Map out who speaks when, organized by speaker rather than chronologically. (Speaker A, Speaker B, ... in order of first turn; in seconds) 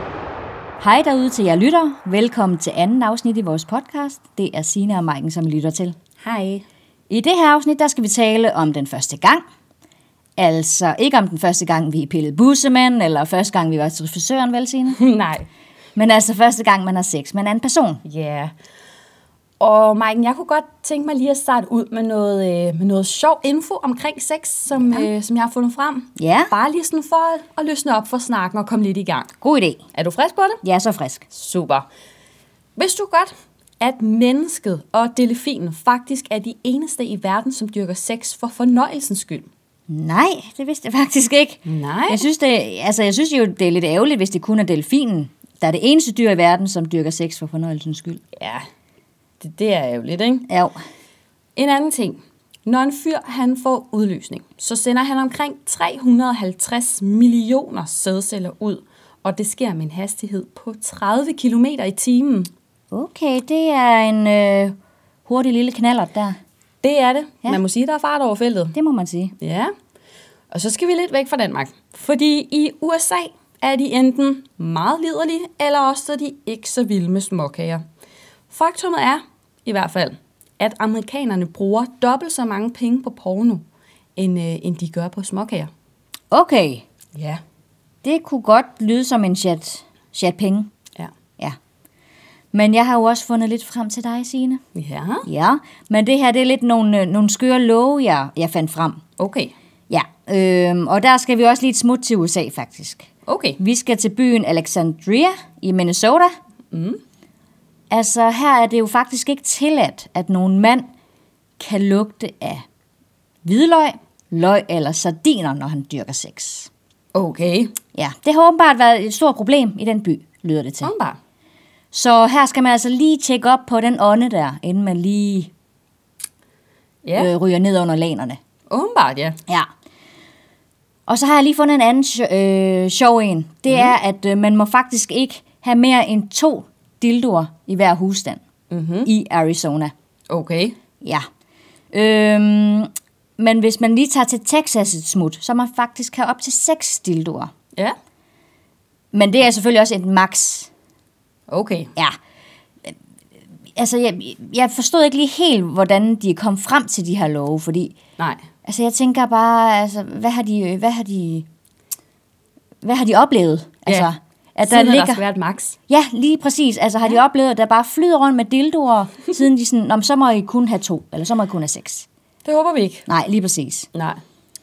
Speaker A: 0.8-6.0, 7.1-9.4, 10.4-15.0, 15.9-18.0, 24.8-25.1, 26.2-26.5, 29.4-29.8, 30.6-31.2, 39.9-48.2, 50.5-50.8, 62.9-66.4, 68.7-69.3, 86.3-86.8, 88.0-90.7, 92.5-94.6, 95.2-99.0, 99.9-106.3, 107.9-110.9, 111.6-112.6, 113.4-116.7, 117.9-120.9, 121.9-125.5, 127.2-128.4, 131.1-138.4, 139.0-139.9, 141.9-147.5, 149.1-150.7, 153.7-157.9, 158.6-161.5, 162.8-165.2, 165.9-172.1, 173.1-173.9
Speaker B: 6.2-6.6, 14.9-15.4, 18.0-18.5, 19.6-29.3, 29.9-30.6, 31.3-31.8, 32.8-39.5, 41.6-42.2, 48.4-48.6, 49.4-50.5, 51.5-62.5, 66.8-68.7, 69.4-69.7, 70.5-77.8, 78.5-83.6, 84.2-85.7, 87.1-87.4, 94.7-95.3, 99.2-99.5, 103.2-103.6, 106.7-107.0, 117.1-117.7, 120.8-121.2, 127.0-127.3, 128.7-129.4, 138.7-139.1, 140.3-140.8, 151.5-151.9, 158.2-158.4, 164.6-165.8, 172.4-173.1, 173.9-174.2